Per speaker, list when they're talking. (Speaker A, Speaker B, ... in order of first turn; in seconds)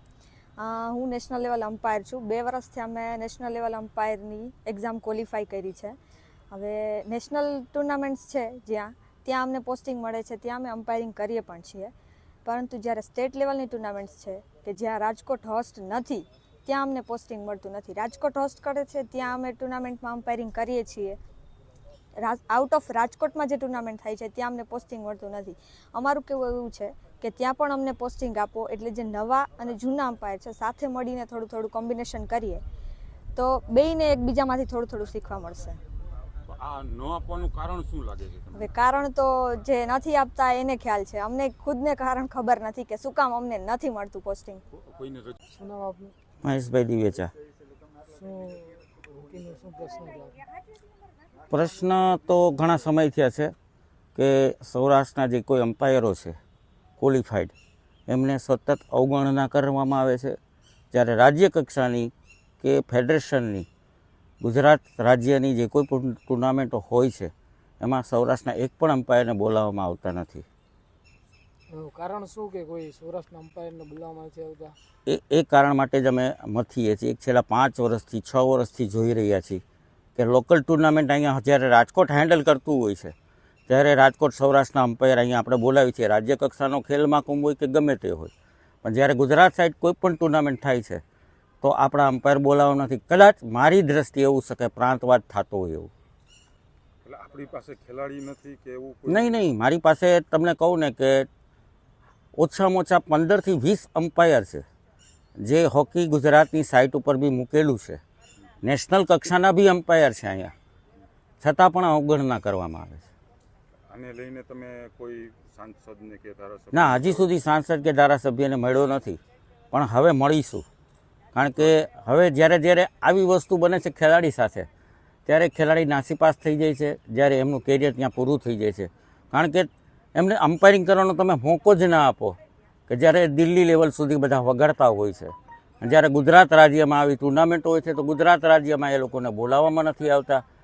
Speaker A: 0.6-5.9, 6.5-11.9, 12.5-21.2, 22.2-32.6, 33.4-35.8, 38.5-44.6
Speaker B: 36.5-38.5, 44.8-45.3, 97.0-99.4, 113.9-117.3
Speaker C: 45.5-46.1, 48.0-50.5, 71.7-74.8
Speaker D: 46.4-47.3, 51.5-53.5, 54.2-56.4, 57.0-57.5, 58.1-60.4, 60.9-63.7, 64.4-70.5, 75.1-79.6, 80.2-83.1, 83.7-88.3, 88.8-91.0, 91.6-95.9, 99.1-101.3, 102.4-104.6, 105.4-108.0, 108.6-110.5, 111.4-113.1, 116.7-119.2, 119.7-120.7, 121.3-124.7, 125.3-140.4